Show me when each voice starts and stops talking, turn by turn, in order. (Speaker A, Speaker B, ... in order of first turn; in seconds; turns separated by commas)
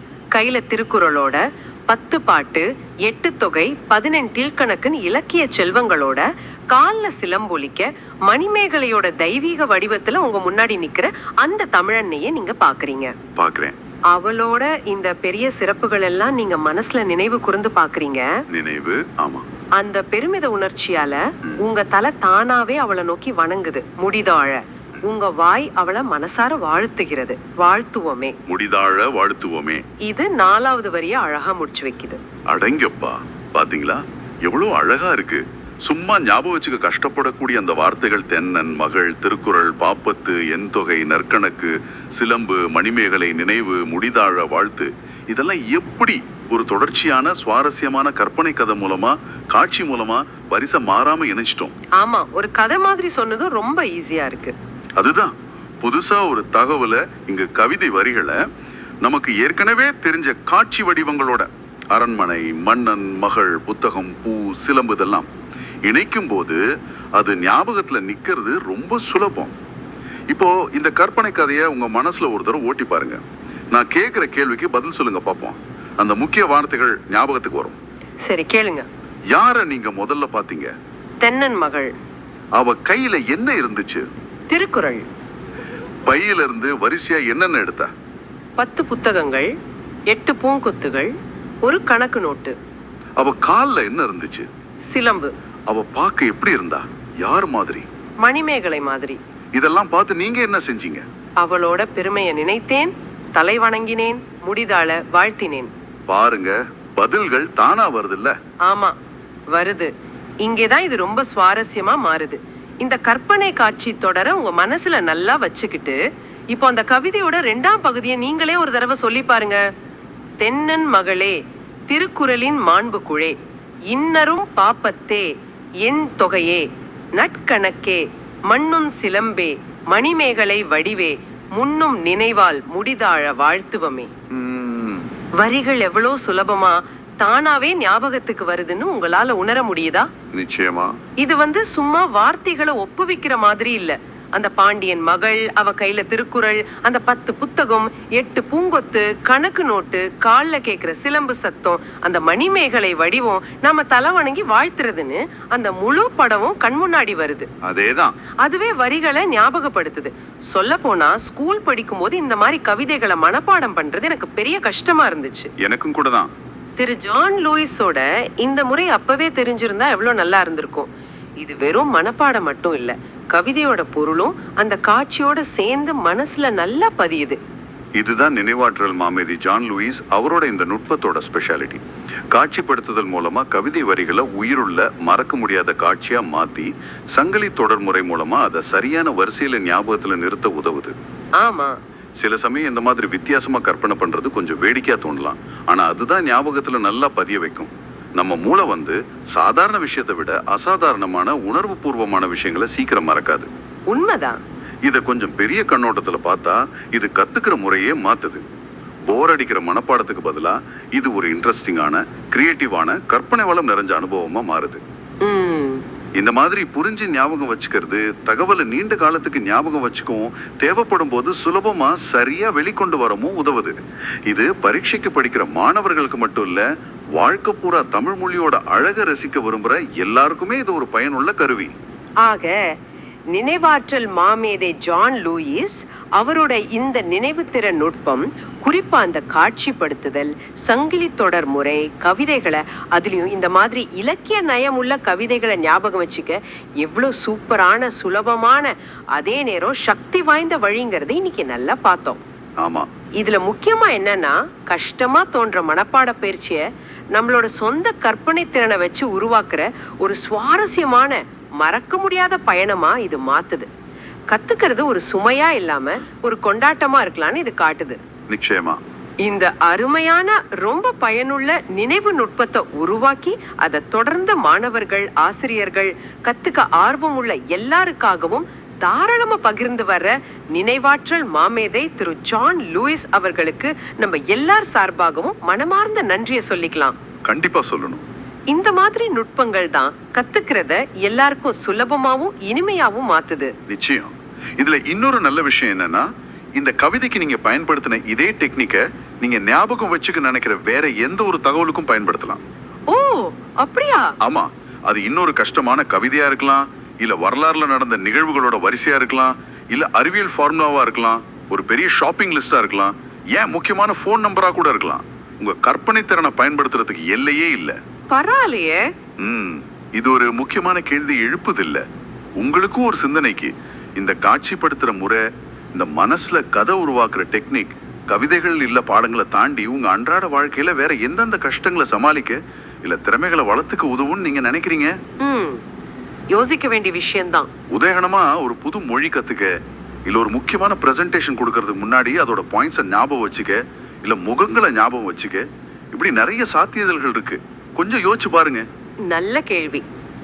Speaker A: 0.3-13.2, Speaker B: 13.4-13.8, Speaker A: 14.1-18.3, Speaker B: 18.5-19.4, Speaker A: 19.8-28.4, Speaker B: 28.5-29.8, Speaker A: 30.0-32.2, Speaker B: 32.5-51.7, Speaker A: 52.0-54.5, Speaker B: 55.0-58.4, Speaker B: 59.0-65.3, Speaker B: 65.8-66.6, Speaker B: 67.2-69.5, Speaker B: 70.3-73.2, Speaker B: 73.7-77.8, Speaker A: 78.2-78.9, Speaker B: 79.3-80.7, Speaker A: 81.2-81.9, Speaker B: 82.6-84.0, Speaker A: 84.5-85.0, Speaker B: 86.1-87.9, Speaker A: 88.6-89.5, Speaker A: 90.1-91.1, Speaker A: 91.6-92.5, Speaker B: 93.2-94.5, Speaker A: 94.9-95.3, Speaker B: 95.7-97.9, Speaker A: 98.2-99.2, Speaker B: 99.5-101.0, Speaker A: 101.4-105.7, Speaker B: 106.1-108.3, Speaker A: 108.7-109.0, Speaker A: 109.5-109.9, Speaker A: 110.4-116.0, Speaker A: 116.5-119.6, Speaker A: 120.4-121.4, Speaker A: 121.9-123.3, Speaker A: 123.9-125.3, Speaker A: 125.8-126.7, Speaker A: 127.2-134.1, Speaker B: 134.3-135.1, Speaker A: 135.4-140.1, Speaker B: 140.3-141.0, Speaker A: 141.2-157.5, Speaker B: 157.6-158.2, Speaker A: 158.4-165.5, Speaker B: 165.6-166.3, Speaker A: 166.8-177.4, Speaker B: 178.0-181.8, Speaker B: 182.3-190.9, Speaker A: 191.4-191.8, Speaker B: 192.2-203.5, Speaker A: 203.9-204.4, Speaker B: 204.9-208.4, Speaker B: 209.1-214.8, Speaker A: 215.2-215.8, Speaker B: 216.2-223.7, Speaker B: 224.3-231.7, Speaker A: 232.2-232.6, Speaker A: 233.3-252.2, Speaker B: 252.6-252.9, Speaker A: 253.2-256.6, Speaker A: 257.1-263.7, Speaker A: 264.3-268.0, Speaker B: 268.3-268.8, Speaker A: 269.2-286.9, Speaker B: 287.3-288.0, Speaker A: 288.5-293.5, Speaker B: 293.7-296.1, Speaker B: 296.6-302.4, Speaker A: 302.9-304.1, Speaker B: 304.2-317.8, Speaker A: 318.1-318.9, Speaker B: 319.2-321.8, Speaker B: 322.4-325.2, Speaker B: 325.8-334.9, Speaker A: 335.2-335.6, Speaker A: 336.3-337.5, Speaker B: 337.7-339.5, Speaker B: 340.1-348.6, Speaker A: 349.1-349.9